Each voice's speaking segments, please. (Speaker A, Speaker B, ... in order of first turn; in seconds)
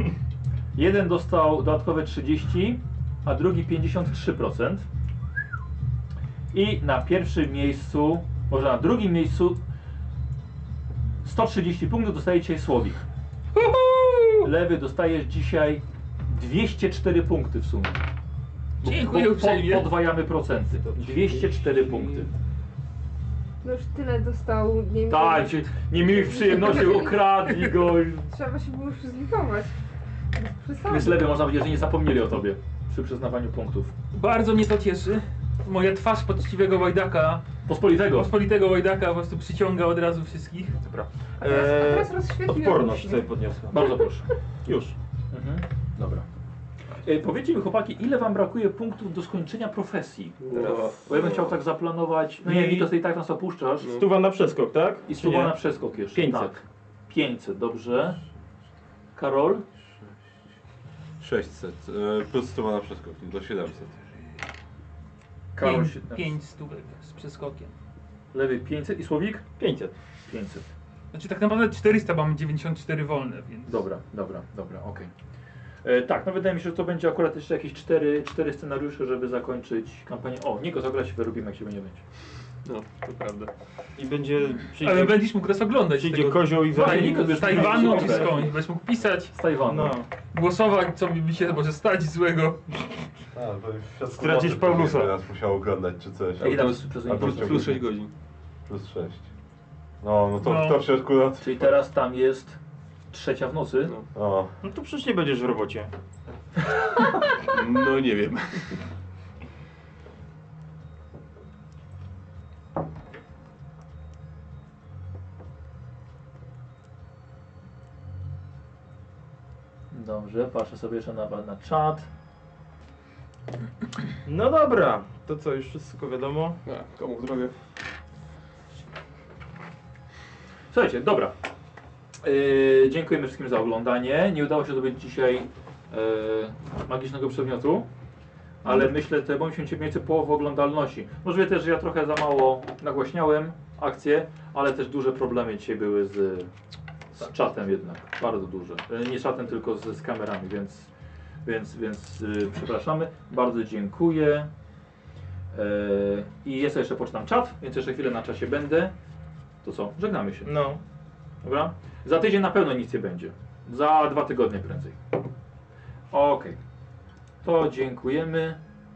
Speaker A: 0.8-4.9, 6.5-9.6, 11.2-13.0, 14.4-18.0, 18.8-22.3, 25.1-28.3, 30.8-33.9, 37.6-38.3, 43.7-44.3, 45.3-46.2, 47.0-54.0, 55.1-58.2, 59.1-59.6, 65.6-66.4, 68.3-69.5, 70.3-70.7, 73.7-75.1, 75.8-82.0, 86.8-88.5, 89.3-90.0, 96.4-97.8, 101.4-102.6, 103.1-104.0, 119.9-122.1, 130.7-131.3, 132.2-137.9, 138.6-146.5, 147.1-150.9, 151.4-154.5, 155.5-158.9, 159.6-160.5, 161.4-165.0, 166.1-166.6, 167.4-168.6
Speaker B: 13.5-14.5, 18.8-20.1, 34.1-37.5, 38.0-40.8, 65.6-67.8, 71.1-73.8, 84.8-89.4, 90.3-92.8, 100.4-100.8
Speaker C: 21.0-21.9, 50.4-51.5, 82.7-83.5, 96.4-98.1, 107.3-108.8, 126.7-127.5
Speaker D: 23.6-27.5, 28.2-29.7, 30.3-31.3, 41.4-43.3
Speaker E: 40.8-44.0, 44.6-45.0, 50.5-50.9, 52.4-52.9, 53.8-55.6, 56.1-56.6, 69.6-70.0, 84.0-85.3, 85.9-88.4, 89.7-90.1, 94.1-95.1, 104.6-105.9, 124.2-126.6, 160.4-160.8
Speaker F: 61.2-64.0, 93.3-97.9, 98.7-99.3, 100.0-101.7, 104.1-104.5